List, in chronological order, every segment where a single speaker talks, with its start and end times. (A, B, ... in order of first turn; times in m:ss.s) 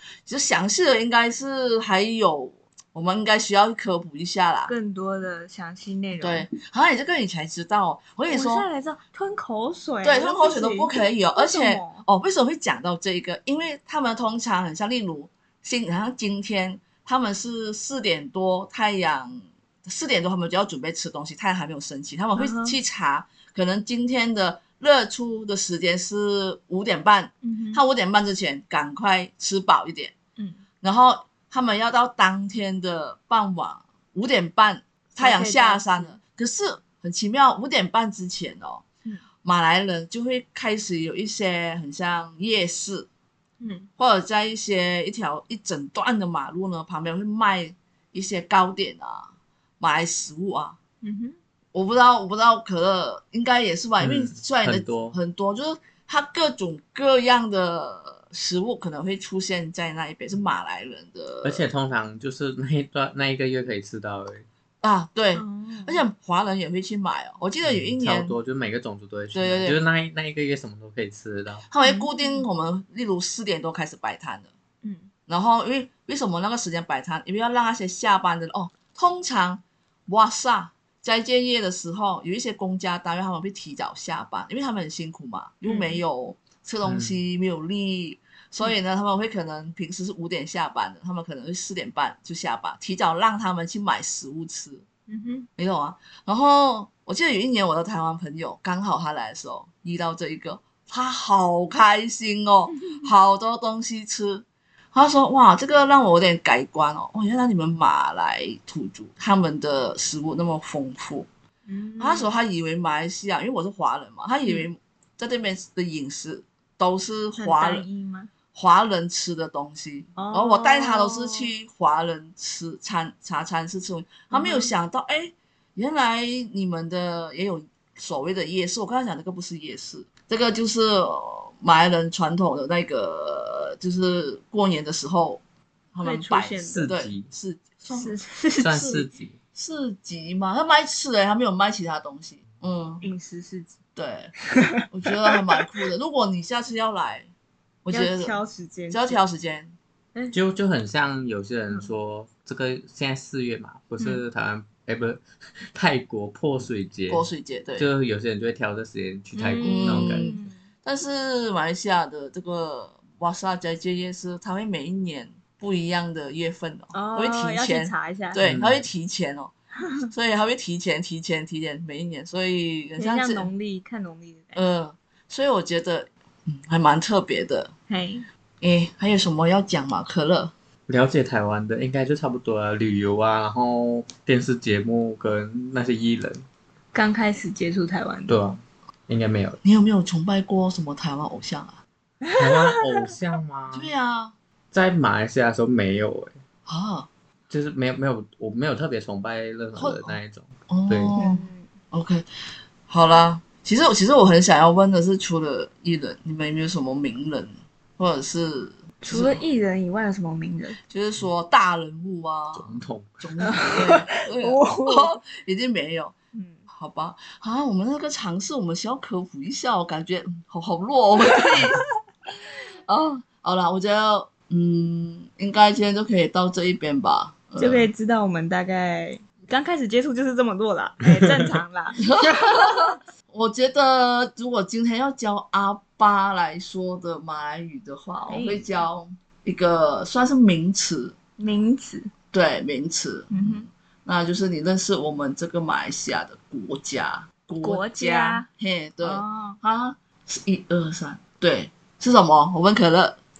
0:00.2-0:04.7 A
0:04.7-0:06.5 B
0:06.2-0:08.7 A
0:08.3-0:12.0 B
0:10.0-0:30.1 A
0:22.4-0:22.8 B
0:27.4-0:27.8 B
0:30.8-0:38.8 A
0:35.2-0:36.2 B
0:39.4-0:43.1 A
0:43.6-0:43.9 B
0:44.0-0:50.8 A
0:51.0-0:51.4 B
0:51.7-1:01.6 A
0:54.0-0:55.2 C
1:01.4-1:04.5 C
1:04.8-1:08.4 A
1:05.3-1:06.0 B
1:07.6-1:11.6 C
1:09.3-1:09.8 A
1:11.7-1:14.5 A
1:11.8-1:12.5 B
1:14.8-1:15.1 B
1:15.3-1:34.8 A
1:25.6-1:26.0 B
1:26.8-1:27.2 C
1:35.1-1:35.5 B
1:35.6-1:51.3 A
1:42.8-1:43.1 B
1:51.6-1:52.3 B
1:52.0-1:57.8 A
1:57.4-1:58.3 B
1:58.5-2:15.4 A
2:00.2-2:01.5 B
2:04.3-2:04.7 B
2:15.9-2:18.2 A
2:16.0-2:16.9 B
2:16.7-2:17.3 C
2:17.9-2:18.9 B
2:18.6-2:19.4 C
2:18.7-2:19.0 A
2:19.5-2:23.0 A
2:23.0-2:23.7 B
2:24.0-2:27.3 A
2:24.5-2:25.6 B
2:27.8-2:28.4 A
2:27.9-2:29.2 B
2:28.9-2:29.7 A
2:30.3-2:40.3 C
2:37.1-2:37.9 A
2:39.3-2:40.6 B
2:39.6-2:49.5 A
2:46.9-2:48.4 B
2:48.4-2:48.8 C
2:50.1-2:53.5 A
2:53.0-2:54.6 B
2:54.5-2:57.7 A
2:57.9-2:58.3 B
2:58.6-3:00.5 A
3:00.9-3:06.4 C
3:06.9-3:08.4 B
3:08.3-3:09.6 C
3:09.6-3:11.8 A
3:12.2-3:13.1 B
3:12.4-3:13.9 C
3:13.7-3:14.3 A
3:14.7-3:16.4 C
3:16.7-3:17.1 A
3:17.5-3:21.1 C
3:19.8-3:20.2 A
3:20.7-3:22.3 A
3:21.2-3:21.6 B
3:22.9-3:29.4 A
3:29.0-3:30.8 B
3:30.9-3:36.1 A
3:32.5-3:33.1 C
3:33.4-3:35.1 B
3:36.3-3:36.6 B
3:36.7-3:41.8 A
3:42.9-3:47.9 A
3:47.6-3:52.9 B
3:51.0-3:51.6 C
3:52.0-4:01.1 A
3:58.3-3:58.7 B
4:01.4-4:02.1 B
4:02.3-4:13.2 A
4:03.3-4:03.7 B
4:07.6-4:08.4 B
4:09.0-4:09.6 B